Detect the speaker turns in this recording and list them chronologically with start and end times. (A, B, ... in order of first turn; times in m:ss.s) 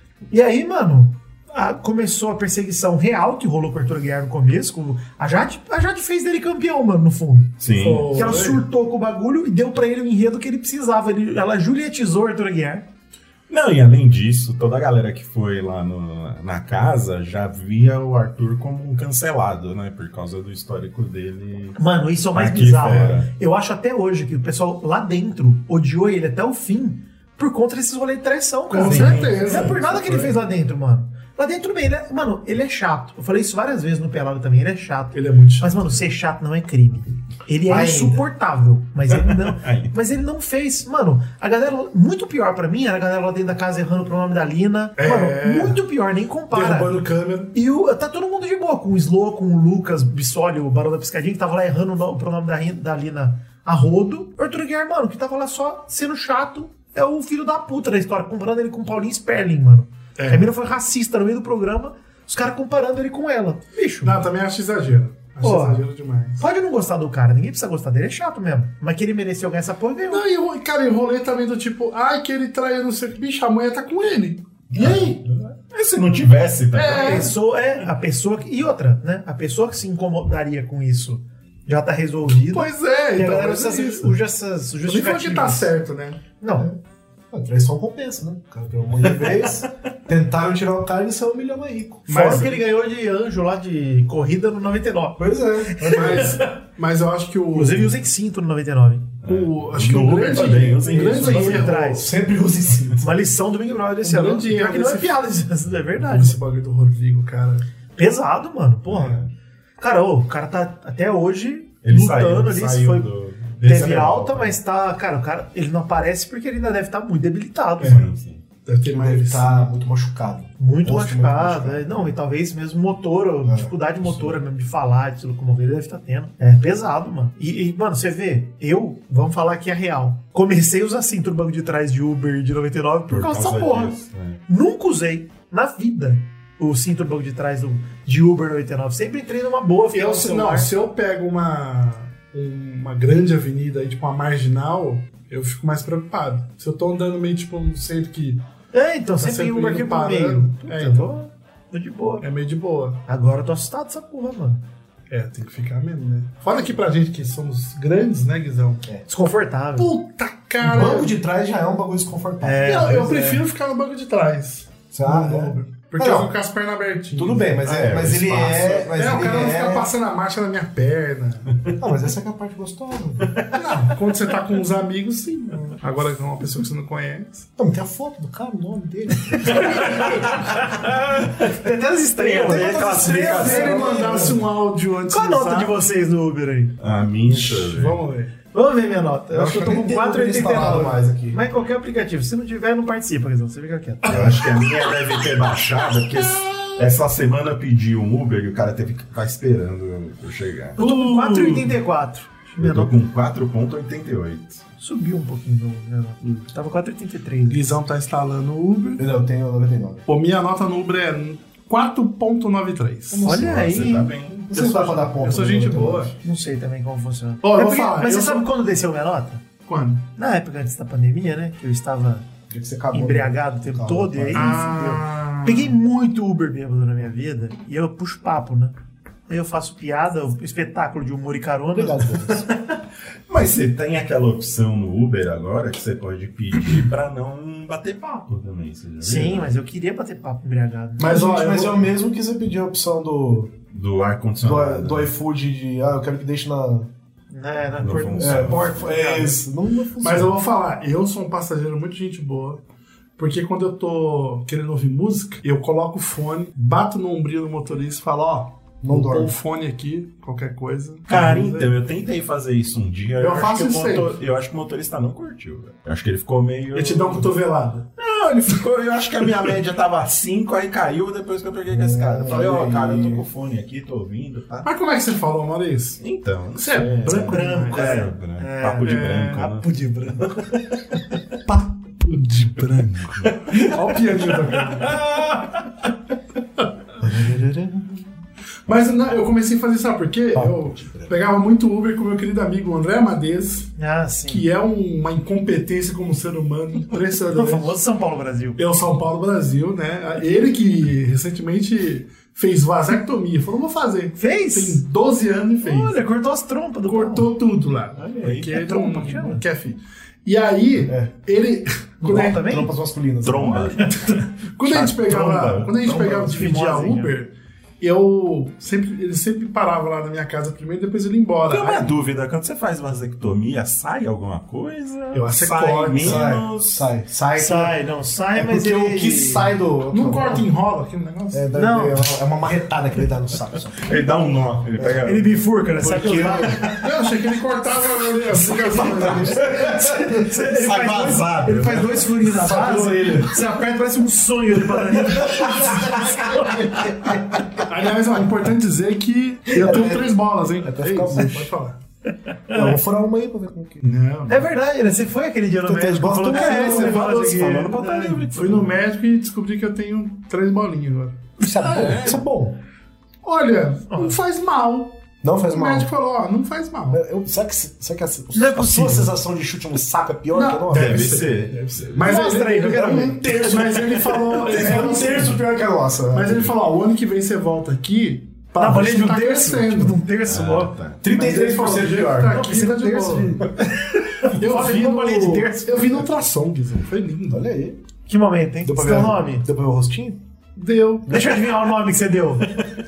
0:00.3-0:12.9 A
0:07.6-0:08.2 B
0:07.8-0:08.6 C
0:13.5-0:21.8 B
0:21.8-0:47.0 A
0:22.3-0:23.3 B
0:28.7-0:30.4 C
0:28.8-0:29.7 B
0:35.1-0:35.9 C
0:37.6-0:38.2 D
0:39.1-0:39.9 B
0:45.0-0:45.8 C
0:46.5-0:47.5 C
0:47.5-1:04.2 A
1:00.2-1:00.5 C
1:04.0-1:06.4 C
1:05.4-1:05.8 A
1:06.4-1:10.2 A
1:10.1-1:15.2 C
1:14.7-1:17.3 B
1:16.7-1:17.3 C
1:16.9-1:25.7 A
1:22.5-1:24.2 C
1:24.8-1:26.2 C
1:26.4-1:26.7 A
1:27.3-1:32.5 D
1:32.1-1:32.6 C
1:32.1-1:36.5 A
1:35.2-1:36.3 D
1:35.9-1:38.0 C
1:37.5-1:39.1 A
1:39.2-1:41.7 B
1:39.2-1:42.1 C
1:40.9-1:43.1 D
1:40.9-1:42.1 A
1:43.0-1:46.4 A
1:44.0-1:45.2 C
1:46.0-1:47.6 C
1:48.0-1:49.2 A
1:48.8-1:49.3 B
1:49.8-1:53.1 A
1:51.8-1:54.6 B
1:53.6-1:58.1 A
1:57.8-1:58.4 B
1:58.6-1:59.7 C
1:58.9-2:02.1 D
2:00.6-2:20.7 A
2:03.4-2:03.7 D
2:13.1-2:14.4 B
2:19.9-2:28.4 C
2:28.7-2:32.2 A
2:29.2-2:31.1 C
2:32.2-2:33.0 C
2:33.1-2:34.6 A
2:35.1-2:38.8 C
2:39.1-2:39.9 A
2:39.8-2:41.1 C
2:40.6-2:43.1 D
2:42.4-2:43.4 A
2:42.6-2:47.6 C
2:44.9-2:46.3 D
2:47.1-2:49.9 D
2:47.6-2:48.8 B
2:48.8-2:51.5 C
2:51.8-2:53.4 D
2:53.5-2:57.5 C
2:57.6-3:00.0 D
3:00.7-3:01.3 B
3:01.4-3:04.4 A
3:02.2-3:03.9 B
3:02.4-3:04.4 D
3:03.0-3:05.8 C
3:05.1-3:06.8 A
3:06.8-3:08.0 B
3:07.2-3:08.3 C
3:08.5-3:14.4 A
3:09.3-3:11.4 D
3:14.0-3:21.7 B
3:20.8-3:23.0 A
3:22.6-3:24.6 B
3:24.8-3:27.8 A
3:27.5-3:29.0 C
3:29.0-3:30.0 D
3:30.1-3:33.3 C
3:33.2-3:34.5 B
3:33.2-3:34.1 A
3:34.4-3:36.2 C
3:34.5-3:36.1 D
3:36.2-3:39.4 A
3:37.4-3:38.5 C
3:39.6-3:40.0 C
3:40.2-3:42.2 A
3:42.5-3:45.0 D
3:42.9-3:48.7 A
3:44.3-3:45.4 C
3:49.3-3:52.1 A
3:51.7-3:52.5 D
3:53.3-3:59.5 B
3:59.0-4:01.3 A
4:01.0-4:03.5 D
4:01.0-4:01.9 C
4:03.7-4:05.1 B
4:04.4-4:06.9 D
4:07.3-4:09.4 A
4:07.8-4:09.0 B
4:08.2-4:10.4 D
4:10.0-4:12.6 C
4:13.2-4:21.7 C
4:18.8-4:19.3 D
4:21.1-4:27.3 B
4:21.1-4:21.6 A
4:23.2-4:24.2 C
4:26.7-4:27.8 C
4:28.0-4:34.7 B
4:31.7-4:33.2 D
4:34.6-4:36.0 C
4:36.0-4:39.6 B
4:36.5-4:38.1 C
4:37.1-4:40.6 A
4:38.8-4:39.3 C
4:41.4-4:45.0 C
4:47.0-4:47.9 A
4:48.7-4:53.7 C
4:50.3-4:51.1 D
4:53.8-4:54.4 A
4:54.3-4:57.8 C
4:57.3-4:58.6 A
4:58.6-5:06.0 C
5:04.2-5:04.8 A
5:05.6-5:07.3 A
5:06.9-5:12.4 C
5:08.0-5:09.4 A
5:08.2-5:08.6 B
5:10.8-5:11.1 D
5:12.0-5:12.7 A
5:12.0-5:13.8 D
5:13.2-5:14.0 B
5:13.8-5:14.2 A
5:13.9-5:21.9 C
5:14.6-5:16.6 B
5:16.3-5:17.1 A
5:21.5-5:26.8 B
5:25.1-5:26.3 C
5:26.0-5:27.8 D
5:27.3-5:29.6 A
5:28.3-5:30.5 D
5:29.9-5:31.4 C
5:31.3-5:33.9 D
5:31.5-5:32.1 A
5:33.8-5:35.3 B
5:34.8-5:35.2 D
5:35.0-5:36.8 A
5:35.8-5:36.7 D
5:36.7-5:39.5 C
5:38.6-5:42.3 B
5:38.7-5:39.9 D
5:39.5-5:47.2 A
5:42.2-5:43.4 D
5:45.1-5:47.1 D
5:47.6-5:51.8 C
5:49.5-5:51.5 D
5:52.5-5:52.8 A
5:52.5-5:53.9 D
5:53.8-5:54.5 C
5:54.3-5:58.2 A
5:55.6-5:57.1 D
5:56.3-5:58.8 B
5:56.7-5:57.1 C
5:58.3-6:01.7 C
6:01.4-6:02.6 D
6:01.7-6:02.2 B
6:03.2-6:07.0 C
6:03.9-6:04.2 A
6:05.2-6:05.9 D
6:06.9-6:11.2 D
6:08.3-6:09.1 A
6:10.3-6:20.0 C
6:10.7-6:12.2 B
6:12.0-6:13.5 A
6:12.8-6:16.5 D
6:18.6-6:20.7 A
6:20.2-6:21.1 B
6:21.0-6:22.6 D
6:21.0-6:23.5 C
6:22.3-6:26.0 A
6:24.3-6:27.4 C
6:27.3-6:27.8 D
6:28.1-6:29.4 A
6:28.6-6:30.2 D
6:30.6-6:31.3 C
6:31.1-6:32.6 A